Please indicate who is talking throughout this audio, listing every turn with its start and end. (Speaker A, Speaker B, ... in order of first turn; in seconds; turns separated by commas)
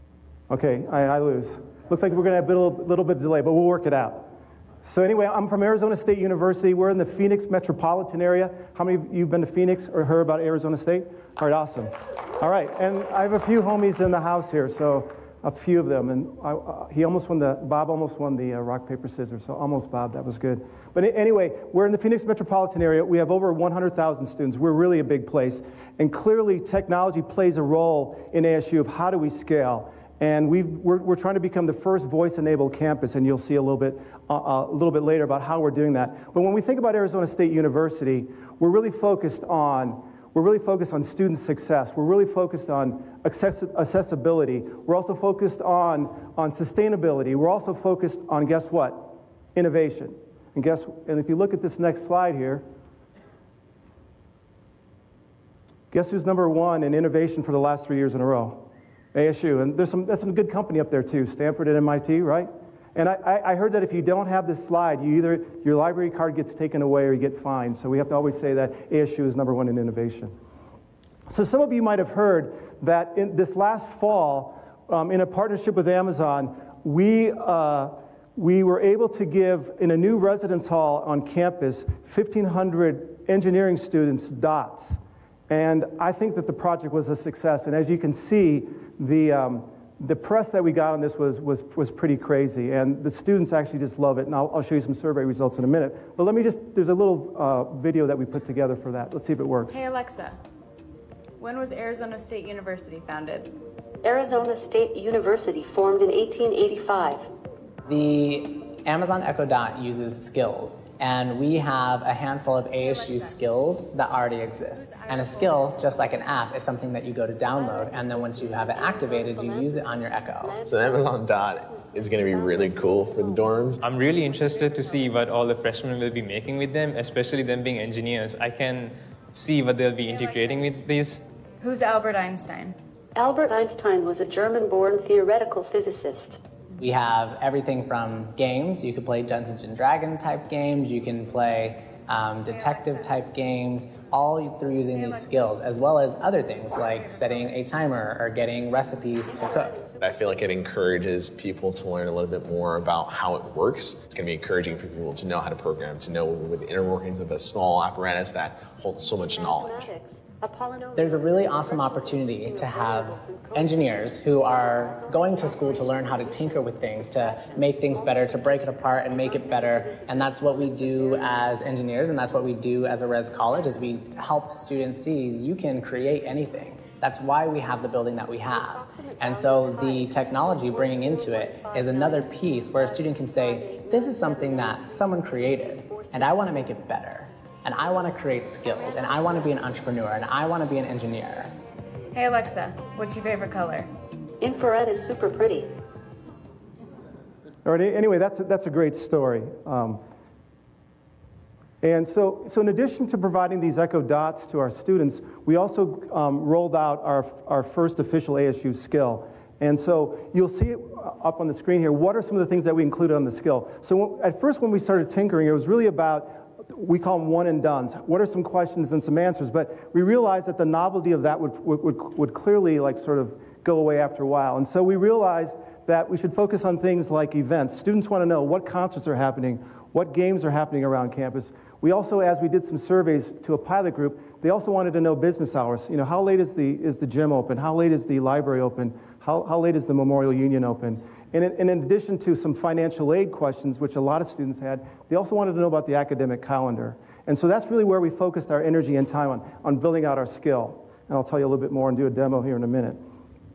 Speaker A: 0.5-4.3, Speaker A: 4.8-52.6, Speaker A: 55.9-70.3, Speaker A: 71.3-99.8, Speaker B: 99.7-100.4, Speaker B: 101.4-103.5, Speaker C: 104.0-107.3, Speaker D: 107.8-120.6, Speaker B: 112.8-113.5, Speaker B: 114.7-116.3, Speaker C: 117.5-123.8, Speaker E: 120.6-123.8, Speaker F: 123.8-131.2, Speaker B: 123.9-125.3, Speaker B: 130.0-130.7, Speaker B: 131.6-132.8, Speaker C: 133.1-136.4, Speaker D: 136.8-149.8, Speaker B: 142.5-143.0, Speaker B: 144.9-145.5, Speaker B: 146.8-147.4, Speaker C: 149.6-150.1, Speaker E: 150.0-159.9, Speaker C: 159.3-171.4, Speaker D: 160.9-191.6, Speaker C: 178.5-184.8, Speaker C: 185.9-186.4, Speaker B: 192.1-193.9, Speaker C: 194.4-195.7, Speaker A: 197.6-200.0, Speaker A: 201.8-253.0